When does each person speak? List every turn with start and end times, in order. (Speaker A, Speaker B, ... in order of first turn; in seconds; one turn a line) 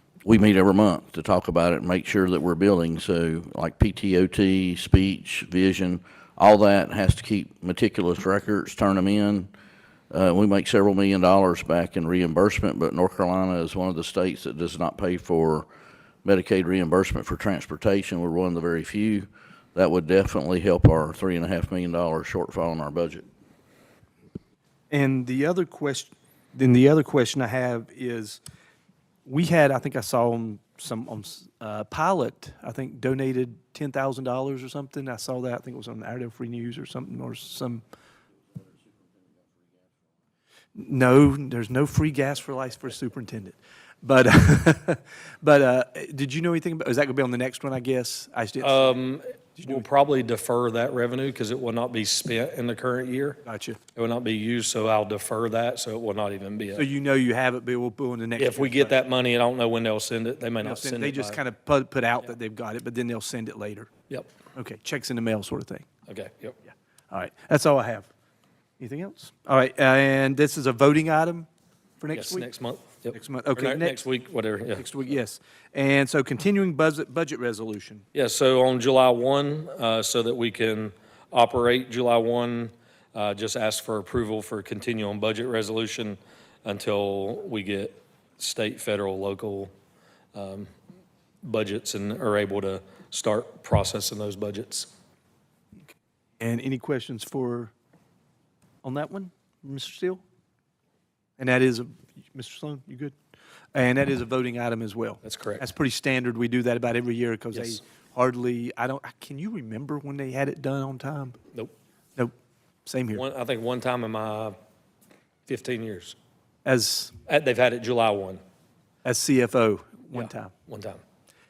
Speaker A: 0.2-9.5
Speaker A: 10.1-15.7
Speaker A: 16.2-23.2
Speaker B: 24.9-28.4
Speaker B: 29.2-37.8
Speaker B: 40.7-49.0
Speaker C: 48.6-53.4
Speaker B: 49.6-49.9
Speaker B: 53.4-53.8
Speaker C: 54.0-56.9
Speaker B: 56.7-58.9
Speaker C: 58.4-61.4
Speaker B: 60.6-63.9
Speaker B: 64.5-65.8
Speaker C: 66.1-66.6
Speaker B: 67.1-68.1
Speaker B: 68.8-71.5
Speaker B: 72.0-72.5
Speaker C: 72.1-74.9
Speaker B: 73.1-74.0
Speaker B: 74.7-78.0
Speaker C: 78.1-89.7
Speaker C: 90.3-90.7
Speaker C: 91.4-94.9
Speaker B: 96.4-97.7
Speaker B: 98.8-100.2
Speaker B: 101.4-103.1
Speaker B: 103.7-111.4
Speaker C: 105.2-105.6
Speaker C: 107.5-107.8
Speaker B: 112.8-113.2
Speaker C: 113.1-114.5
Speaker C: 115.5-116.2
Speaker B: 116.6-117.1
Speaker C: 117.2-118.4
Speaker B: 119.0-120.5
Speaker C: 120.1-121.0